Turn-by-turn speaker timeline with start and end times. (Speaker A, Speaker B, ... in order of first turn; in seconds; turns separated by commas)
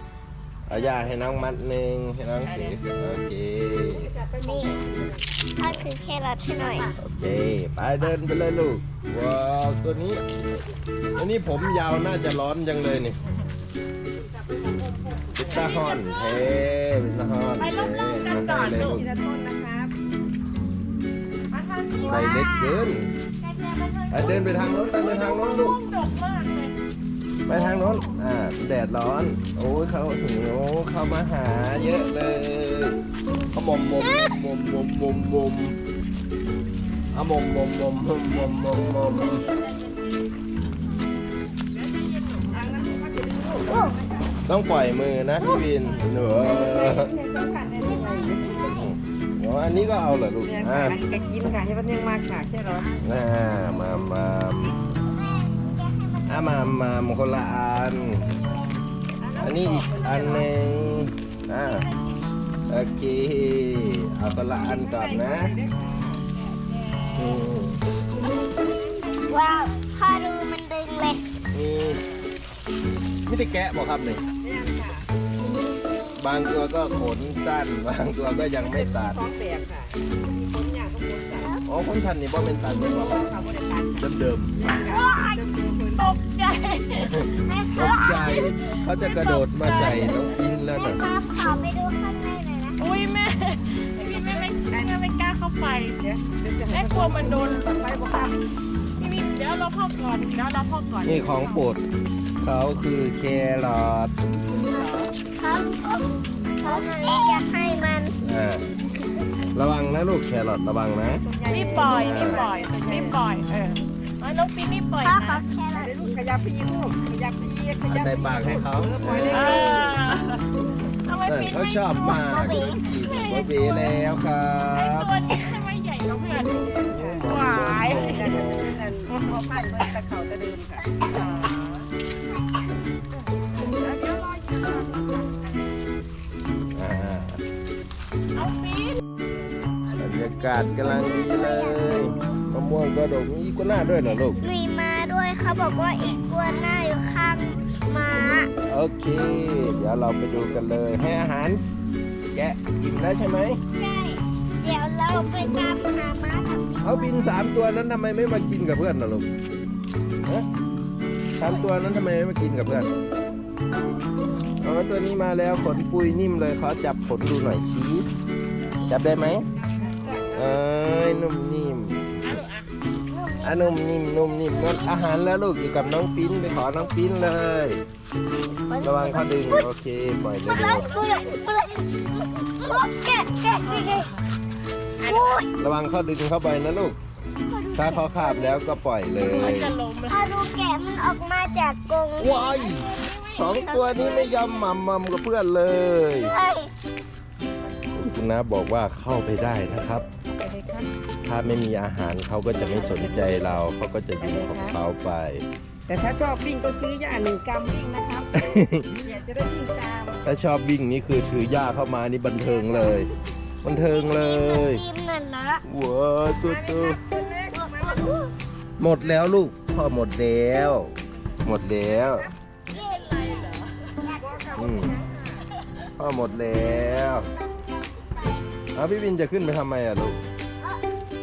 Speaker A: 0.7-4.1, Speaker B: 2.5-2.8, Speaker C: 3.9-5.5, Speaker D: 4.4-4.8, Speaker D: 5.6-6.9, Speaker A: 5.6-5.9, Speaker B: 6.6-7.0, Speaker A: 7.0-10.2, Speaker A: 11.2-13.2, Speaker C: 14.2-15.8, Speaker A: 15.3-19.1, Speaker B: 15.5-16.4, Speaker B: 17.6-19.0, Speaker C: 18.8-19.9, Speaker B: 21.5-22.3, Speaker D: 22.0-22.9, Speaker A: 22.1-23.1, Speaker B: 23.4-26.8, Speaker A: 24.1-25.8, Speaker A: 27.5-33.0, Speaker D: 27.5-28.0, Speaker A: 33.5-35.8, Speaker D: 34.0-34.4, Speaker A: 37.1-39.5, Speaker B: 39.4-40.1, Speaker B: 41.7-43.0, Speaker C: 42.5-44.3, Speaker D: 43.6-44.0, Speaker A: 44.5-47.1, Speaker D: 45.4-45.7, Speaker C: 46.3-48.5, Speaker D: 47.8-48.9, Speaker A: 48.5-51.0, Speaker C: 50.4-52.9, Speaker B: 52.7-53.0, Speaker A: 53.0-54.8, Speaker D: 55.1-56.6, Speaker A: 56.3-58.5, Speaker B: 59.2-60.4, Speaker A: 59.4-61.9, Speaker C: 59.4-60.5, Speaker B: 61.7-62.4, Speaker A: 62.7-65.5, Speaker C: 64.5-66.2, Speaker B: 66.2-67.4, Speaker A: 67.1-67.9, Speaker B: 68.6-69.2, Speaker D: 69.3-71.3, Speaker A: 71.5-72.0, Speaker B: 71.9-72.3, Speaker A: 73.3-74.2, Speaker C: 74.4-75.1, Speaker A: 76.2-79.2, Speaker C: 78.7-81.5, Speaker D: 81.3-81.7, Speaker A: 81.7-83.3, Speaker C: 82.8-84.0, Speaker A: 84.0-84.6, Speaker C: 84.6-86.1, Speaker B: 84.8-87.3, Speaker A: 87.0-91.0, Speaker D: 87.4-88.2, Speaker B: 87.9-90.3, Speaker D: 90.7-92.8, Speaker B: 92.8-96.1, Speaker C: 94.1-94.9, Speaker C: 96.0-98.5, Speaker B: 96.7-97.9, Speaker B: 99.0-101.5, Speaker A: 101.0-101.8, Speaker A: 102.4-104.1, Speaker C: 104.5-105.1, Speaker D: 105.3-106.1, Speaker B: 106.6-107.5, Speaker D: 106.6-108.2, Speaker A: 108.2-108.7, Speaker A: 109.5-111.3, Speaker C: 111.2-113.2, Speaker B: 111.5-115.5, Speaker A: 111.9-112.4, Speaker D: 112.1-112.4, Speaker D: 115.0-116.3, Speaker C: 115.8-119.8, Speaker A: 117.9-120.0, Speaker B: 119.3-120.5, Speaker B: 121.0-124.0, Speaker A: 121.3-125.1, Speaker D: 122.0-122.8, Speaker B: 124.7-126.7, Speaker C: 126.3-131.1, Speaker A: 126.9-128.8, Speaker B: 127.2-128.1, Speaker B: 131.0-131.9, Speaker B: 133.4-135.6, Speaker A: 136.7-137.4, Speaker B: 138.3-139.0, Speaker A: 139.9-144.4, Speaker D: 140.4-142.4, Speaker B: 143.9-144.5, Speaker D: 144.4-148.5, Speaker A: 148.7-151.6, Speaker A: 152.3-153.6, Speaker D: 153.7-157.3, Speaker A: 156.8-159.3, Speaker A: 161.4-162.9, Speaker A: 164.6-168.1, Speaker A: 168.9-169.5, Speaker C: 169.9-170.4, Speaker A: 170.2-172.4, Speaker B: 172.2-172.7, Speaker D: 173.1-175.1, Speaker A: 173.4-177.8, Speaker D: 176.0-176.9, Speaker D: 178.7-179.7, Speaker A: 178.8-180.9, Speaker D: 180.5-184.1, Speaker B: 180.6-181.5, Speaker B: 183.6-184.2, Speaker B: 185.0-185.4, Speaker D: 185.0-185.5, Speaker A: 185.6-187.0, Speaker D: 187.5-188.6, Speaker A: 187.8-189.7, Speaker B: 189.2-190.3, Speaker D: 190.1-192.4, Speaker A: 192.2-196.3, Speaker B: 192.4-194.6, Speaker D: 193.5-194.3, Speaker D: 196.2-196.7, Speaker A: 197.9-200.1, Speaker C: 200.3-200.9, Speaker A: 201.2-205.4, Speaker C: 202.7-203.6, Speaker C: 204.2-204.8, Speaker C: 205.9-210.2, Speaker A: 208.3-209.0, Speaker A: 210.2-213.1, Speaker A: 213.6-214.8, Speaker D: 214.0-215.6, Speaker A: 215.7-217.0, Speaker C: 216.4-218.0, Speaker D: 217.1-218.3, Speaker A: 218.8-220.9, Speaker A: 221.4-222.3, Speaker B: 222.7-224.0, Speaker D: 222.7-224.9, Speaker C: 224.2-225.4, Speaker A: 224.6-224.9, Speaker A: 226.0-227.3, Speaker D: 227.2-228.5, Speaker A: 228.7-230.2, Speaker D: 230.6-230.9